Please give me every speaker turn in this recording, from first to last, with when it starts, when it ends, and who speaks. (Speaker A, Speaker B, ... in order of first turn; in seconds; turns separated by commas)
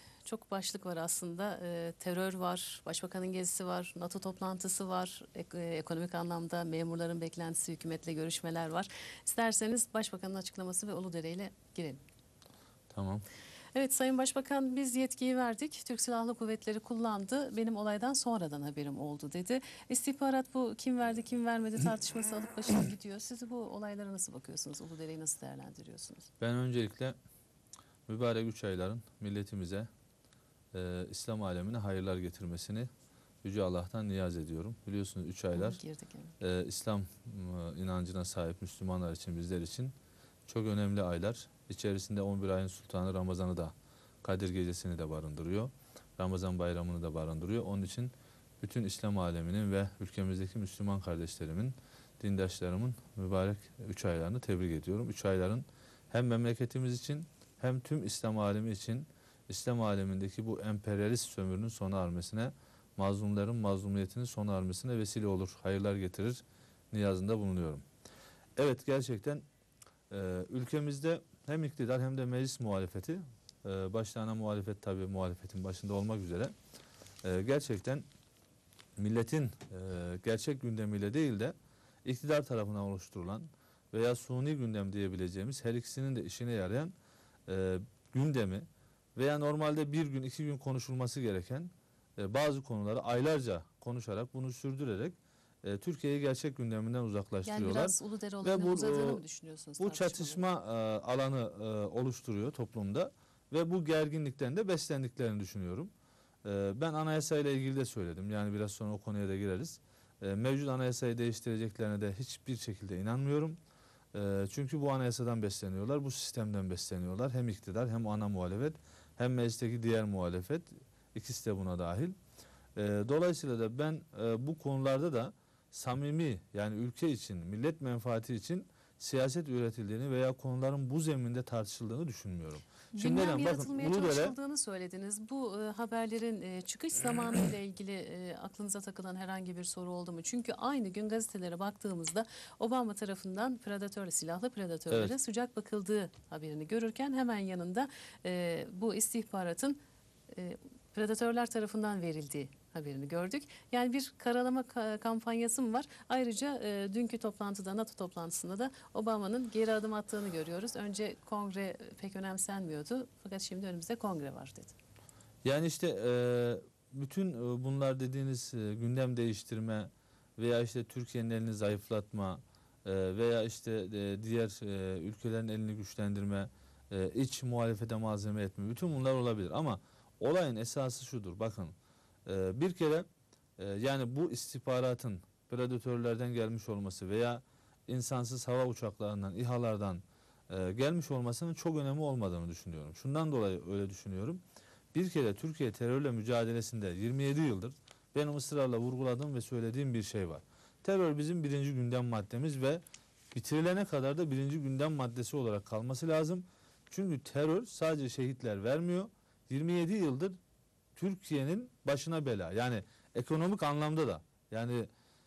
Speaker A: 0.2-12.0, Speaker B: 12.9-13.2, Speaker A: 13.8-26.3, Speaker B: 26.4-27.2, Speaker B: 28.1-29.9, Speaker B: 30.7-32.9, Speaker B: 33.4-35.8, Speaker A: 35.5-36.3, Speaker B: 36.4-40.0, Speaker B: 40.5-67.8, Speaker B: 68.6-69.4, Speaker B: 70.1-76.5, Speaker B: 77.2-78.0, Speaker B: 79.0-87.0, Speaker B: 87.5-99.2, Speaker A: 97.5-100.5, Speaker B: 99.8-105.9, Speaker B: 106.5-113.6, Speaker B: 114.1-122.2, Speaker B: 122.8-134.3, Speaker A: 132.9-149.8, Speaker A: 150.3-164.8, Speaker B: 165.4-181.8, Speaker B: 182.3-183.1, Speaker B: 183.6-194.4, Speaker B: 194.9-210.4, Speaker B: 211.0-214.9